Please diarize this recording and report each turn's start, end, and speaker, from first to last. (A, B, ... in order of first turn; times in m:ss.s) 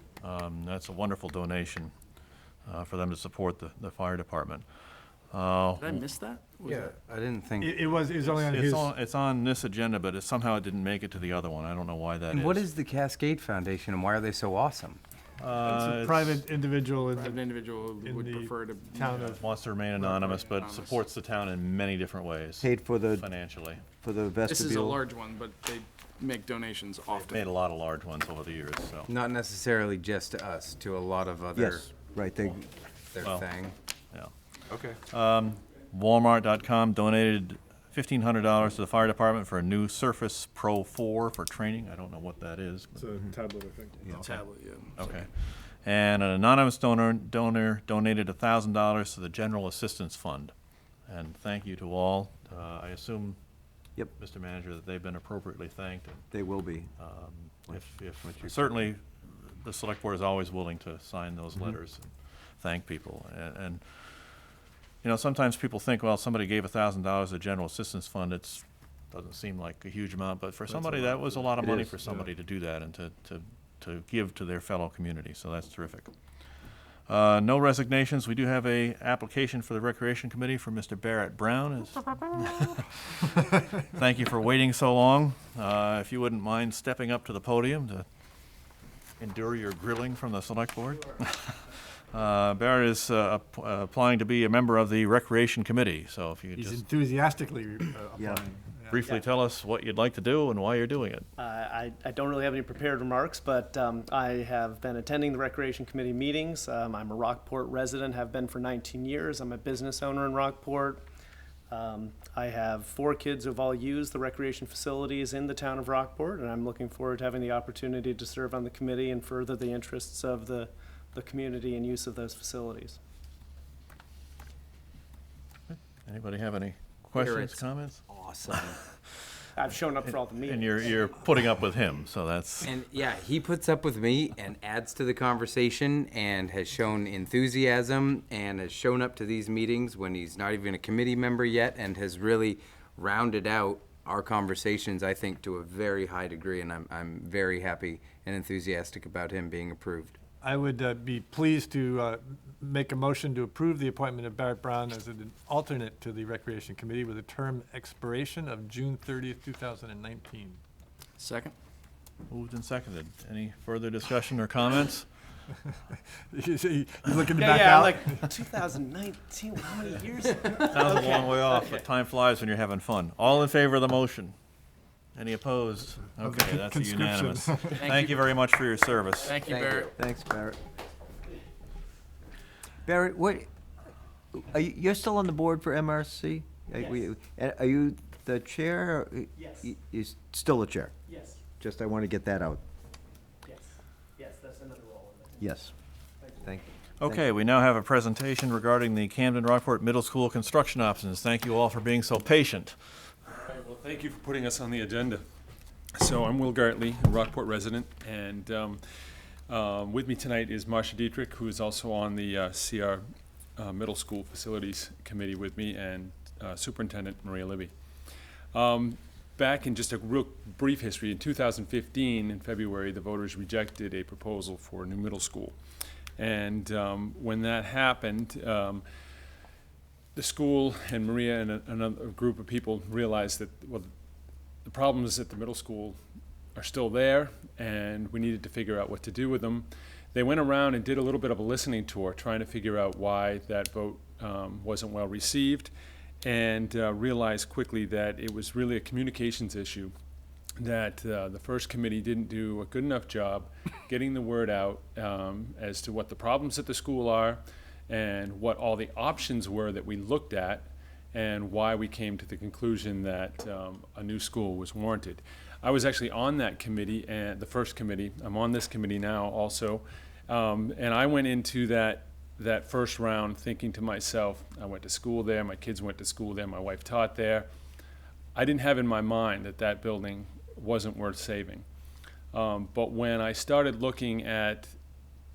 0:00.2-0:01.9 A
0:02.7-0:04.6 A
0:05.3-0:06.0 A
0:05.8-0:06.9 B
0:06.7-0:07.8 C
0:07.6-0:08.9 D
0:08.2-0:12.6 A
0:12.3-0:15.0 C
0:15.4-0:16.4 A
0:15.6-0:17.4 D
0:17.3-0:19.0 B
0:18.0-0:19.4 D
0:19.2-0:23.8 A
0:20.0-0:20.9 B
0:22.6-0:23.3 E
0:24.0-0:25.0 E
0:24.5-0:27.4 B
0:27.1-0:29.1 A
0:29.1-0:31.9 C
0:31.6-0:32.7 E
0:33.1-0:33.8 C
0:35.1-0:43.0 A
0:43.0-0:44.4 D
0:44.1-0:45.2 B
0:45.0-0:45.3 A
0:45.8-0:50.5 A
0:51.1-0:53.4 A
0:54.2-0:56.2 A
0:56.3-0:56.9 E
0:57.0-1:03.8 A
0:57.7-0:58.7 E
1:05.0-1:16.1 A
1:10.7-1:11.9 D
1:11.6-1:12.0 E
1:17.1-1:28.1 A
1:29.2-1:31.6 A
1:32.1-1:36.8 A
1:36.6-1:39.0 D
1:38.9-1:41.3 A
1:41.4-1:51.0 F
1:51.7-2:03.0 F
2:05.7-2:08.0 A
2:07.2-2:08.8 C
2:09.6-2:10.9 F
2:10.0-2:12.7 A
2:12.6-2:30.2 C
2:30.4-2:40.6 D
2:41.2-2:41.5 B
2:42.3-2:45.1 A
2:46.3-2:48.3 D
2:47.4-2:51.7 F
2:50.6-2:54.3 A
2:55.2-2:59.4 A
2:56.2-2:57.9 D
2:59.3-2:59.9 B
2:59.4-2:59.9 C
3:00.0-3:00.6 E
3:02.8-3:03.5 E
3:04.3-3:10.9 E
3:09.4-3:09.7 F
3:11.1-3:11.4 F
3:11.6-3:12.6 E
3:13.4-3:15.5 F
3:15.4-3:15.7 E
3:16.2-3:16.5 F
3:16.4-3:17.2 E
3:17.0-3:22.8 A
3:23.5-3:25.2 G
3:26.0-3:28.8 G
3:29.5-3:33.0 G
3:33.6-3:37.7 G
3:38.5-3:45.6 G
3:46.2-3:48.8 G
3:50.2-3:53.9 G
3:54.6-3:56.0 G
3:56.6-4:05.7 G
4:06.2-4:09.9 G
4:10.6-4:37.5 G
4:38.4-4:41.6 G
4:42.3-4:44.7 G